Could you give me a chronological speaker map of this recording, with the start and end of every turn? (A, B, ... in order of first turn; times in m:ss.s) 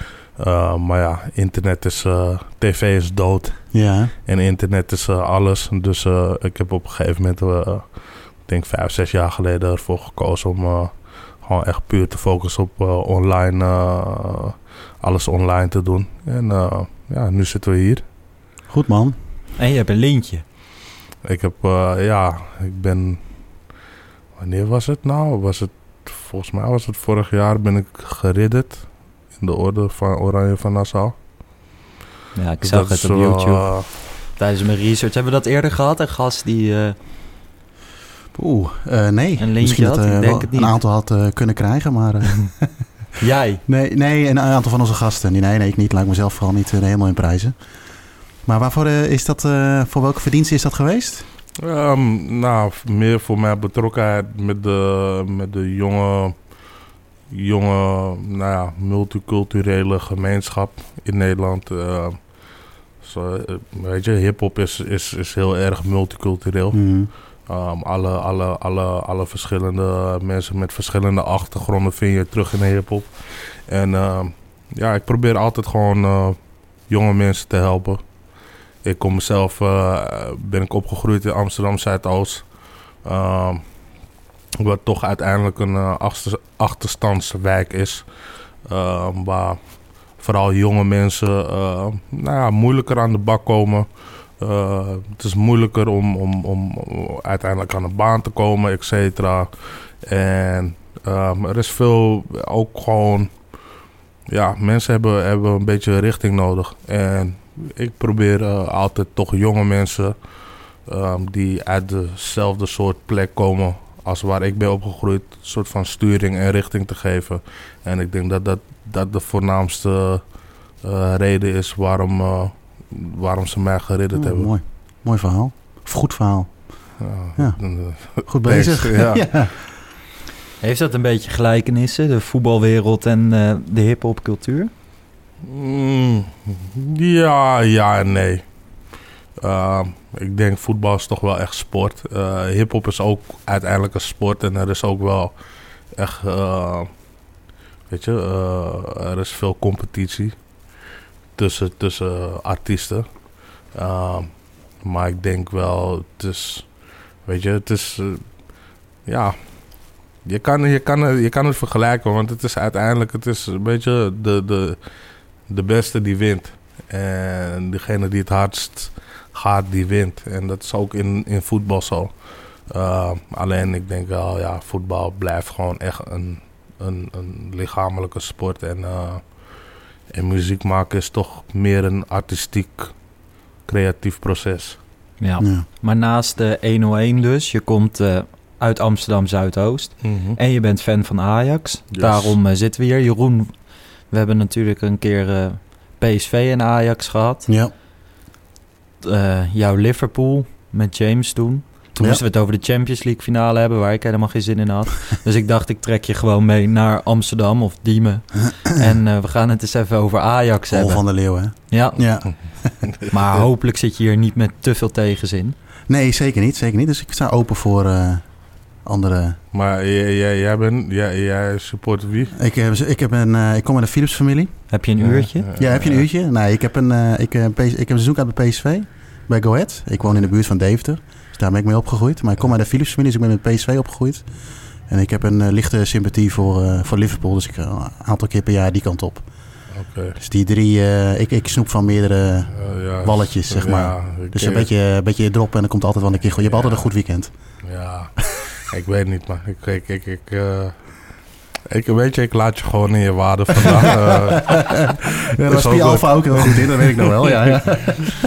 0:00.4-0:03.7 A
0:03.7-0:04.1 B
0:04.2-0:18.0 A
0:18.7-0:19.2 B
0:19.6-0:20.4 C
0:21.2-0:23.2 A
0:24.4-0:31.1 A
0:32.3-0:33.8 C
0:32.6-0:33.8 A
0:34.4-0:37.0 C
0:38.3-0:42.7 B
0:39.4-0:40.8 C
0:43.2-0:43.6 C
0:43.6-0:47.6 B
0:48.4-0:51.3 B
0:51.6-0:56.4 A
0:57.3-1:02.2 A
1:03.0-1:06.8 A
1:06.7-1:07.1 B
1:07.5-1:18.0 A
1:18.8-1:22.4 A
1:23.0-1:23.6 A
1:24.6-1:28.0 A
1:28.6-1:29.6 A
1:30.2-1:43.3 A
1:44.3-1:50.2 A
1:50.8-2:00.3 A
2:00.8-2:04.5 A
2:04.1-2:07.6 B
2:07.0-2:09.2 A
2:08.2-2:09.6 B
2:10.6-2:14.7 C
2:15.4-2:18.4 A
2:19.4-2:25.3 A
2:26.0-2:26.9 A
2:27.9-2:30.4 A
2:31.4-2:33.0 A
2:33.7-2:34.3 A
2:34.8-2:38.2 A
2:39.0-2:39.4 A
2:40.2-2:44.8 A
2:45.5-2:59.5 A
3:00.1-3:02.9 A
3:03.7-3:04.8 A
3:05.2-3:13.6 C
3:05.4-3:05.6 B
3:10.0-3:10.4 A
3:11.9-3:12.3 A
3:14.1-3:17.5 C
3:17.5-3:17.7 B
3:19.0-3:31.0 C
3:22.0-3:22.2 B
3:28.5-3:28.9 B
3:30.7-3:32.8 B
3:31.7-3:32.0 C
3:33.1-3:35.6 C
3:35.9-3:39.4 B
3:39.5-3:42.3 A
3:42.3-3:44.7 B
3:44.7-3:45.4 C
3:45.0-3:46.0 A
3:45.6-3:59.2 B
3:59.7-4:00.2 A
4:00.2-4:07.6 B
4:02.5-4:04.7 A
4:06.4-4:06.9 A
4:07.6-4:10.9 A
4:11.7-4:17.0 A
4:15.4-4:18.1 B